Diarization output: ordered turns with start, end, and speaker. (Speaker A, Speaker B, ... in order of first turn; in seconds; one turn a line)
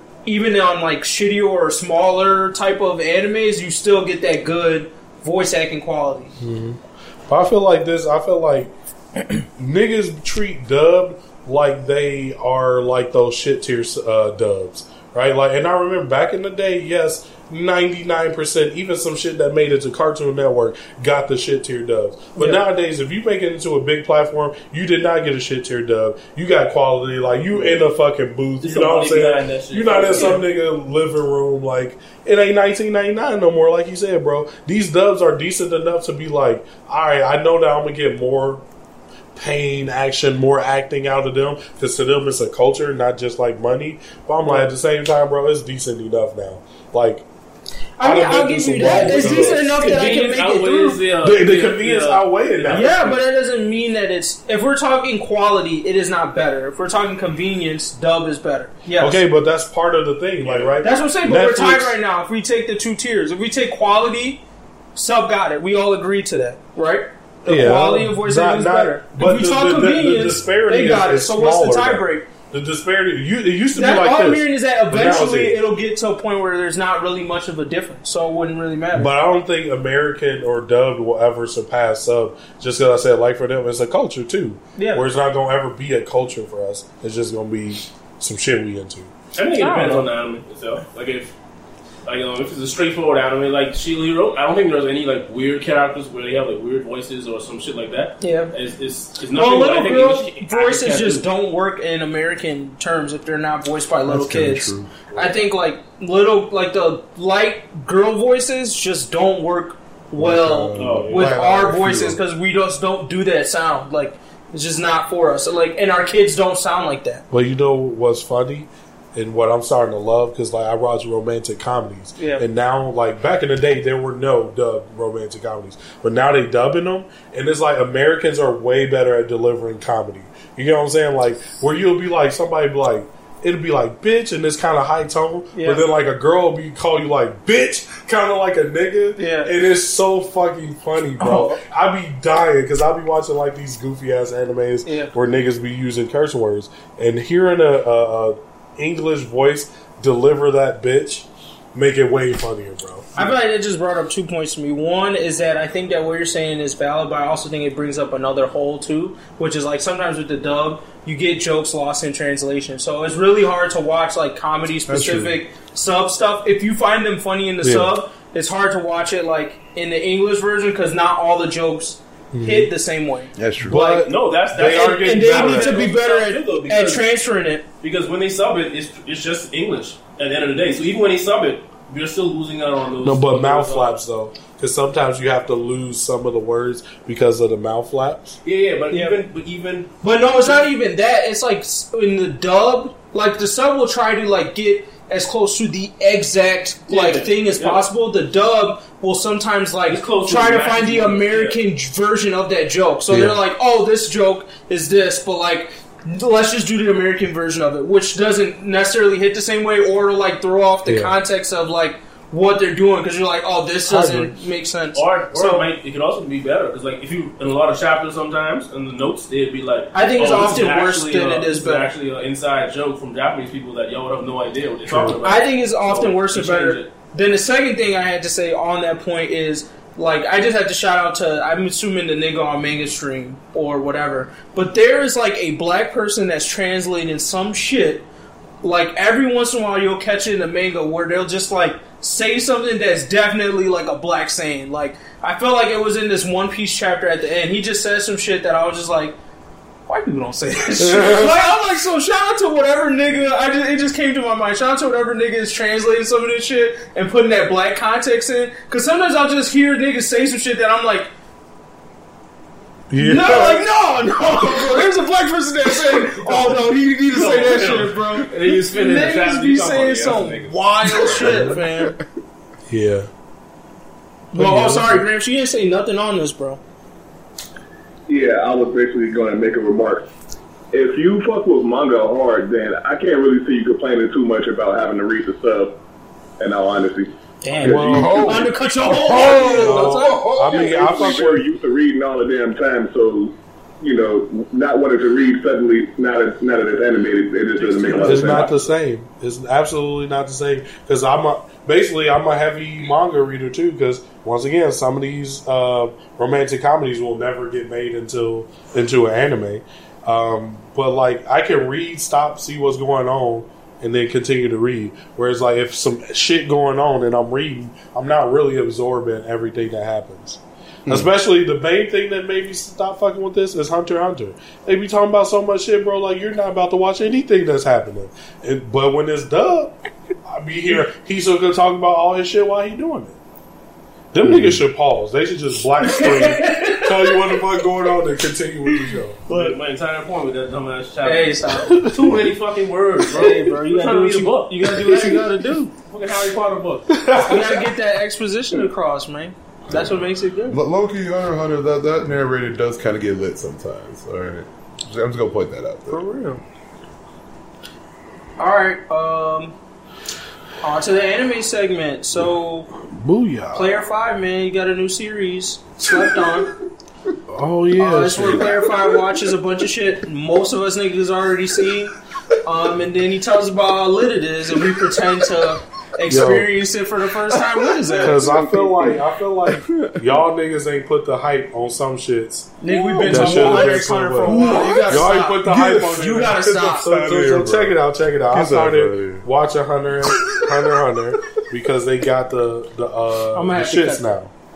Speaker A: 0.2-6.3
Speaker B: 6.4-8.7
Speaker B: 9.4-38.6
Speaker C: 27.5-27.8
Speaker C: 28.6-30.4
Speaker A: 30.1-30.4
Speaker B: 39.3-47.2
Speaker A: 48.0-51.0
Speaker B: 48.0-50.2
Speaker C: 48.8-52.9
Speaker B: 51.2-53.2
Speaker A: 52.7-59.2
Speaker B: 59.0-62.0
Speaker C: 60.4-60.7
Speaker A: 60.8-64.4
Speaker A: 64.9-72.3
Speaker B: 67.4-75.6
Speaker A: 73.7-79.1
Speaker B: 78.9-89.1
Speaker A: 84.8-85.0
Speaker C: 89.3-91.3
Speaker A: 89.5-90.1
Speaker C: 92.0-101.2
Speaker A: 98.2-98.5
Speaker A: 99.3-117.2
Speaker D: 104.1-104.9
Speaker D: 110.2-112.2
Speaker C: 110.8-111.3
Speaker B: 117.3-153.3
Speaker A: 122.2-122.4
Speaker A: 135.5-135.8
Speaker A: 139.2-139.5
Speaker A: 141.2-141.6
Speaker A: 144.8-145.1
Speaker A: 153.2-173.3
Speaker D: 164.9-165.3
Speaker B: 167.6-167.9
Speaker B: 172.3-172.7
Speaker D: 173.3-173.8
Speaker B: 173.6-175.9
Speaker C: 173.7-177.1
Speaker A: 174.6-177.6
Speaker C: 177.8-184.0
Speaker B: 183.0-188.4
Speaker C: 188.4-190.7
Speaker A: 188.9-189.2
Speaker A: 190.0-215.7
Speaker C: 196.9-197.8
Speaker C: 199.9-201.6
Speaker B: 203.1-203.4
Speaker B: 210.8-211.2
Speaker B: 213.8-214.3
Speaker C: 214.9-226.9
Speaker A: 219.9-221.9
Speaker B: 224.9-225.2
Speaker A: 225.2-238.1
Speaker A: 238.6-249.2
Speaker A: 249.9-261.1
Speaker B: 250.8-251.4
Speaker B: 262.9-263.7
Speaker A: 263.0-271.9
Speaker B: 264.4-264.8
Speaker C: 267.1-271.5
Speaker B: 271.1-271.6
Speaker B: 272.7-273.1
Speaker A: 274.3-276.6
Speaker B: 274.3-275.1
Speaker E: 278.1-280.1
Speaker E: 280.7-285.8
Speaker E: 286.4-288.4
Speaker A: 287.4-290.6
Speaker B: 287.6-288.4
Speaker D: 287.9-290.7
Speaker B: 289.1-291.4
Speaker E: 290.3-298.5
Speaker C: 297.6-298.5
Speaker B: 298.0-329.7
Speaker B: 330.2-333.2
Speaker B: 334.1-339.2
Speaker D: 334.2-334.6
Speaker A: 335.8-337.4
Speaker A: 338.7-339.6
Speaker C: 339.3-345.2
Speaker A: 341.0-341.9
Speaker B: 341.7-342.0
Speaker A: 343.1-345.7
Speaker B: 344.8-345.2
Speaker C: 345.9-347.0
Speaker B: 346.9-347.7
Speaker A: 347.1-350.6
Speaker D: 349.7-356.0
Speaker A: 355.9-356.4
Speaker A: 358.4-359.5
Speaker A: 360.6-362.7
Speaker B: 362.8-363.8
Speaker A: 363.5-366.5
Speaker B: 367.3-368.6
Speaker A: 367.8-378.2
Speaker D: 368.6-369.0
Speaker B: 376.1-376.6
Speaker D: 377.4-380.0
Speaker B: 378.0-394.3
Speaker A: 382.6-387.6
Speaker D: 382.7-386.0
Speaker D: 386.9-387.7
Speaker D: 388.3-389.2
Speaker A: 393.3-394.1